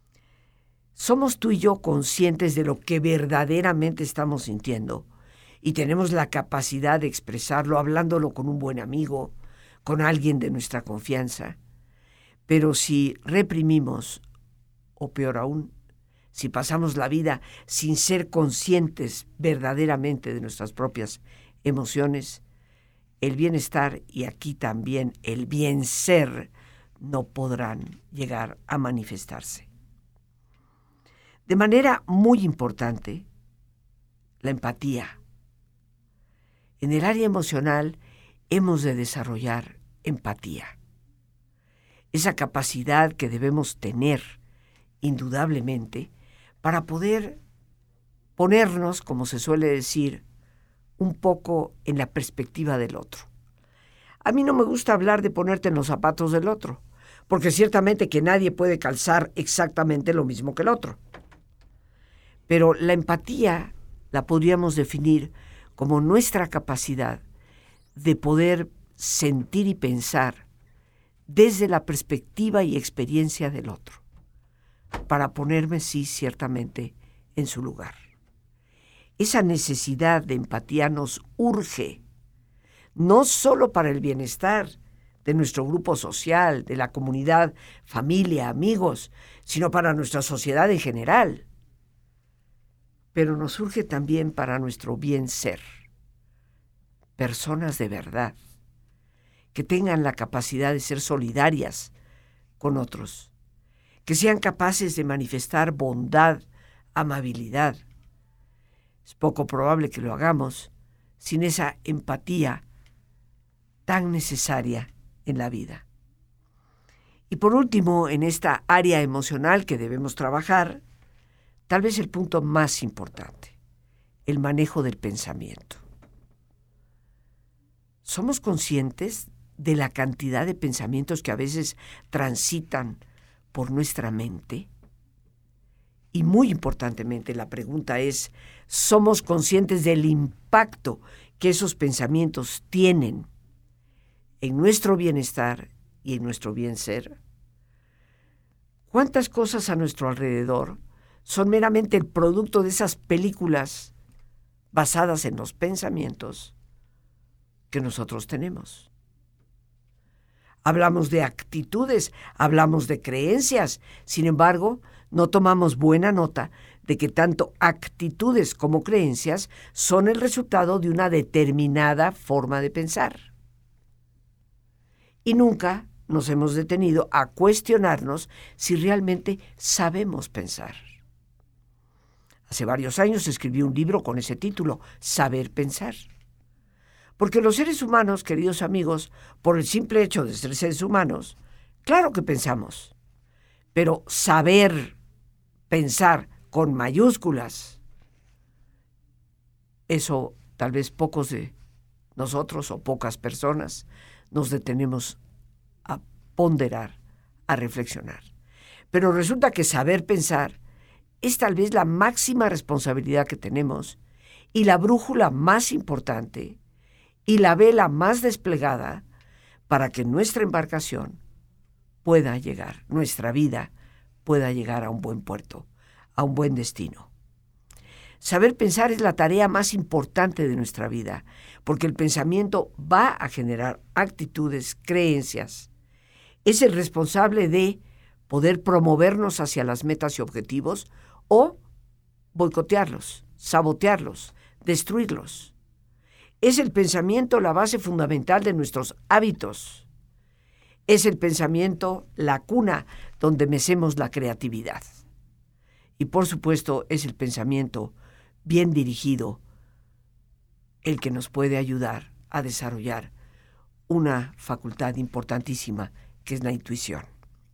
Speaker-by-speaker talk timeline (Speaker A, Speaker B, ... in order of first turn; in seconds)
Speaker A: 1.0-5.1, 5.6-11.6, 12.5-14.2, 15.0-15.7, 16.3-22.4, 23.2-29.7, 31.5-33.3, 34.4-35.2, 36.8-38.0, 38.5-40.8, 42.1-44.4, 45.0-46.1, 46.6-47.4, 48.4-50.2, 51.0-53.3, 54.2-61.0, 62.5-67.2, 68.0-70.5, 71.3-74.0, 75.1-78.0, 79.2-82.0, 83.0-91.5, 93.1-95.6, 97.2-98.4, 99.5-101.9, 102.6-103.3, 104.0-106.4, 107.0-107.8, 109.0-112.6, 113.9-115.8, 117.3-120.8, 121.7-123.6, 124.3-125.8, 128.0-133.0, 133.5-134.7, 136.1-143.3, 144.4-147.2, 148.9-153.9, 154.7-156.5, 157.7-158.9, 160.6-173.3, 175.2-180.9, 182.5-186.0, 187.2-192.9, 193.7-195.0, 195.7-197.8, 199.9-201.5, 202.2-205.2, 205.8-207.0, 207.5-208.3, 208.9-210.6, 211.2-214.0, 214.5-216.6, 217.3-219.0, 219.7-221.2, 222.0-223.7, 224.2-227.1, 228.2-235.7, 236.4-241.6, 242.3-245.5, 246.4-249.9, 250.9-254.8, 256.0-257.9, 258.4-259.4, 260.8-263.1, 263.9-267.1